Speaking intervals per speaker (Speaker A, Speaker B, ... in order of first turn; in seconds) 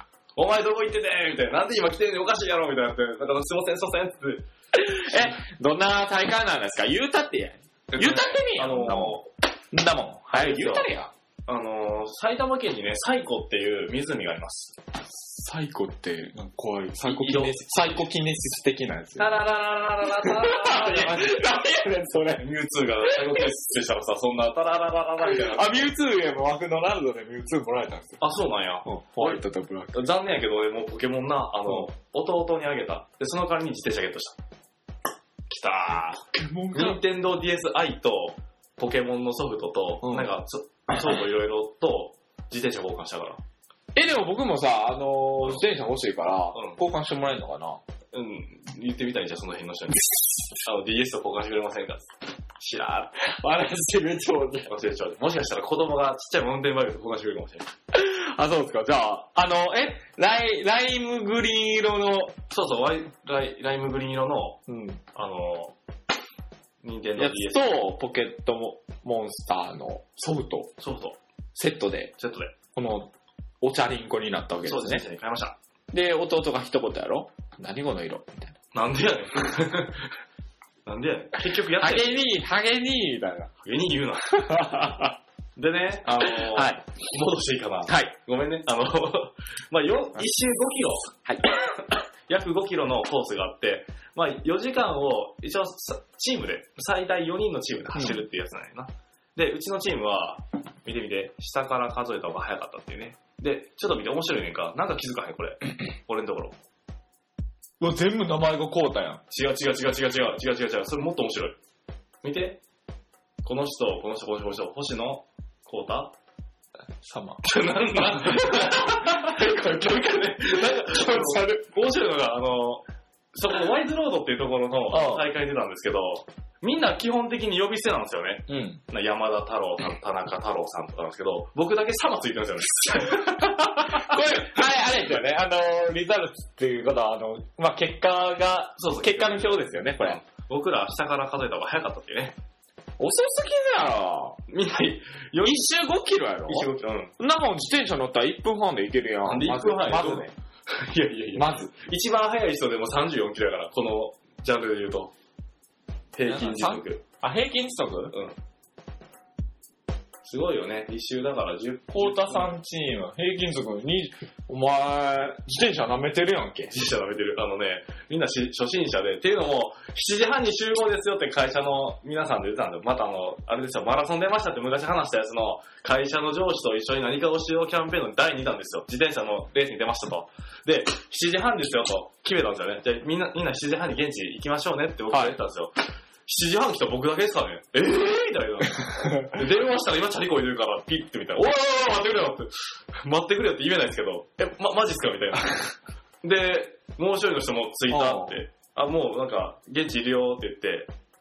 Speaker A: 0.3-4.4, 7.9-9.2, 10.3-10.9, 11.5-14.8, 17.0-18.0, 19.2-21.5, 22.4-25.9, 28.2-29.4, 29.9-34.4, 35.5-43.4, 46.5-46.8, 48.1-53.1, 54.7-57.7, 62.5-64.6, 65.1-65.7, 66.8-67.7, 70.8-71.2, 72.2-72.5, 74.6-75.5, 78.7-80.1, 80.8-82.1, 83.6-84.7, 85.6-106.5, 109.3-111.6, 112.2-112.6, 113.4-116.1, 117.4-122.8, 123.3-134.5, 138.8-142.3, 144.5-145.7, 146.5-147.2, 149.2-155.1, 156.1-157.0, 160.2-162.5, 166.7-185.7, 186.2-195.7, 196.2-200.9
Speaker B: 4.7-11.1, 15.2-19.4, 20.1-22.5, 23.0-23.5, 25.3-28.2, 28.8-30.1, 36.3-37.0, 40.0-40.3, 43.9-47.8, 53.2-54.7, 57.9-62.3, 64.7-65.0, 67.2-70.7, 71.5-72.1, 72.7-75.0, 75.9-78.5, 81.8-83.5, 84.4-85.2, 86.2-86.8, 87.9-88.1, 97.9-98.2, 107.8-109.2, 117.0-117.4, 117.9-121.7, 124.9-125.3, 128.5-128.8, 133.2-140.2, 143.0-144.4, 145.4-150.3, 151.3-151.7, 156.2-158.1, 161.9-166.7, 185.1-185.4, 188.8-189.3, 197.9-198.4